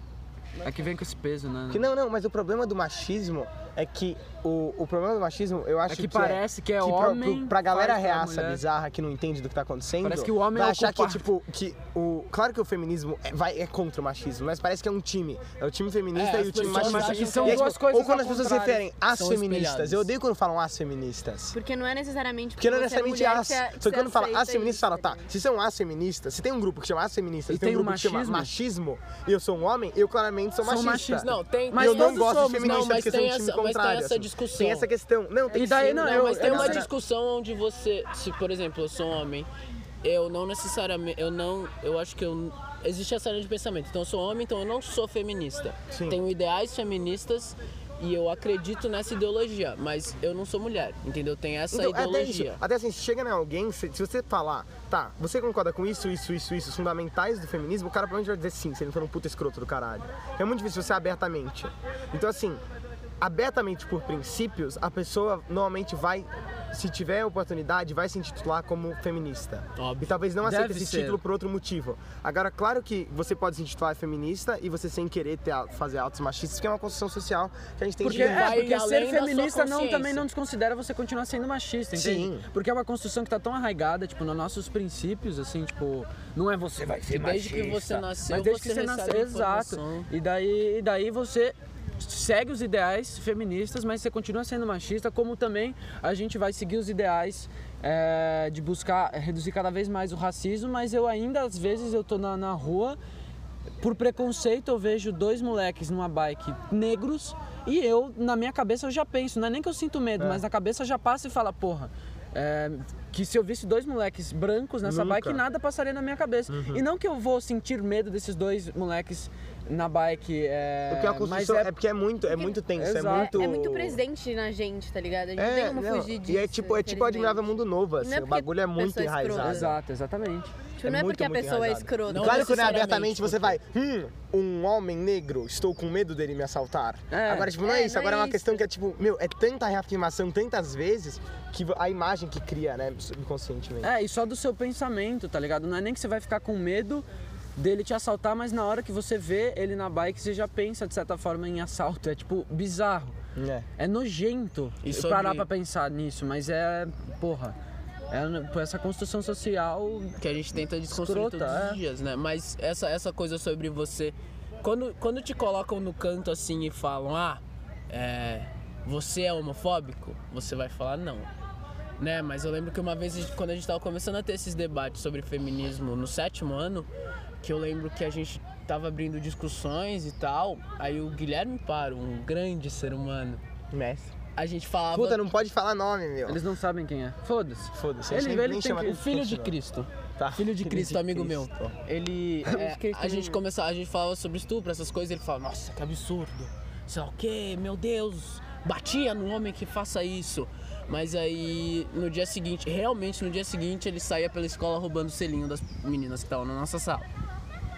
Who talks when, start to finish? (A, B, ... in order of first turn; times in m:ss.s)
0:00.6-0:01.9 A
0:01.7-0:21.6 B
0:05.9-0:08.6 A
0:10.0-0:11.2 A
0:16.1-0:17.7 C
0:16.3-0:18.8 A
0:19.1-0:20.1 C
0:21.5-0:25.3 D
0:22.6-0:36.9 B
0:27.5-0:28.5 A
0:30.6-0:33.2 A
0:31.2-0:34.9 C
0:35.5-0:36.9 A
0:35.8-0:39.5 C
0:40.0-0:52.6 C
0:45.9-0:46.2 B
0:51.7-1:02.6 B
1:03.2-1:18.6 B
1:09.8-1:10.2 C
1:10.4-1:11.2 A
1:18.0-1:20.3 C
1:18.0-1:43.0 A
1:21.9-1:22.5 B
1:27.1-1:30.1 C
1:43.8-2:01.7 A
1:54.8-1:55.4 B
1:56.5-1:56.8 B
2:00.9-2:04.0 B
2:02.3-2:02.6 D
2:02.8-2:03.5 A
2:03.1-2:07.4 D
2:05.4-2:09.8 B
2:08.0-2:09.7 D
2:09.4-2:10.5 A
2:10.8-2:13.0 D
2:10.8-2:23.9 B
2:12.1-2:13.6 C
2:17.1-2:17.6 A
2:17.6-2:18.7 D
2:23.8-2:27.0 A
2:27.6-2:33.2 A
2:33.4-2:33.7 B
2:33.8-2:37.6 A
2:34.8-2:35.5 C
2:38.1-2:40.2 A
2:40.2-2:51.3 C
2:40.9-2:41.8 A
2:52.0-2:56.9 C
2:57.4-3:03.4 C
3:03.7-3:04.1 B
3:04.4-3:05.2 C
3:04.9-3:06.4 B
3:06.3-3:09.2 A
3:07.7-3:09.6 B
3:08.8-3:27.1 C
3:10.2-3:11.8 B
3:12.5-3:13.4 A